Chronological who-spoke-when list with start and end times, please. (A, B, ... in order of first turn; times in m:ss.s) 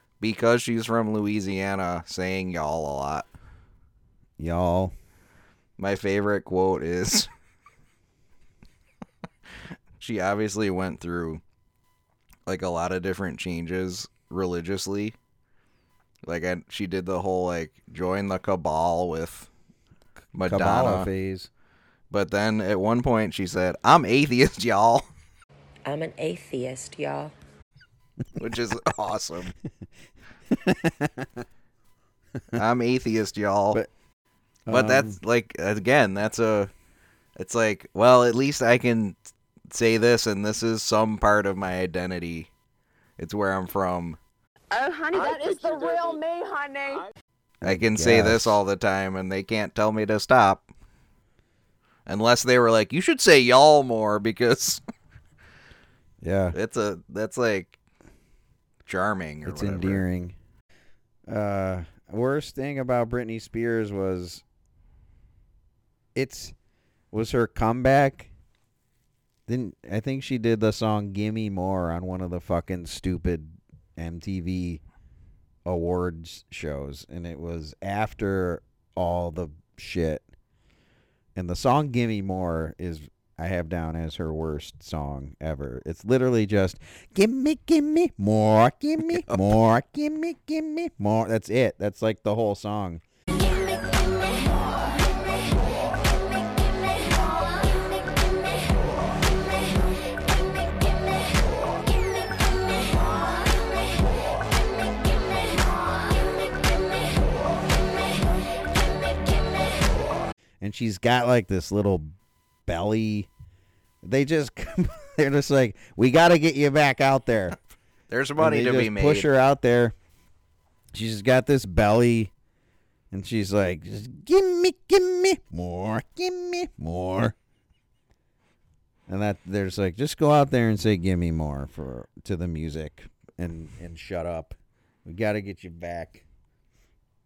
0:00.2-0:03.3 A
0:04.4-0:04.9 B
0:05.8-0:07.3 A
0:10.0-0:11.4 A
0:12.5-0:15.2 A
0:16.3-0:19.5 A
0:20.4-0:21.1 A
0:20.4-0:21.5 B
0:22.1-0:25.1 A
0:25.9-0:27.3 C
0:28.4-0:29.5 A
0:30.5-0:31.4 B
0:32.6-0:33.8 A
0:34.7-0:35.2 B
0:34.7-0:36.7 A
0:37.4-0:39.2 A
0:39.7-0:42.5 A
0:43.2-0:44.2 A
0:44.7-0:47.1 D
0:47.6-0:48.6 B
0:47.6-0:50.7 A
0:52.1-0:54.8 A
0:56.2-0:56.6 B
0:56.5-0:57.8 A
0:58.9-1:00.0 A
0:59.4-1:00.4 B
1:01.3-1:04.4 B
1:06.2-1:06.6 B
1:07.1-1:08.3 B
1:09.5-1:14.8 B
1:15.6-1:20.2 B
1:21.4-1:33.0 B
1:29.1-1:29.5 A
1:33.4-1:34.6 C
1:37.2-1:38.5 C
1:42.0-1:43.6 C
1:45.7-1:47.0 C
1:50.6-1:52.2 B
1:52.7-1:53.3 B
1:54.0-1:57.6 B
1:58.1-1:59.3 A
1:58.4-2:00.0 B
2:00.9-2:02.3 B
2:03.1-2:07.3 B
2:09.1-2:16.2 B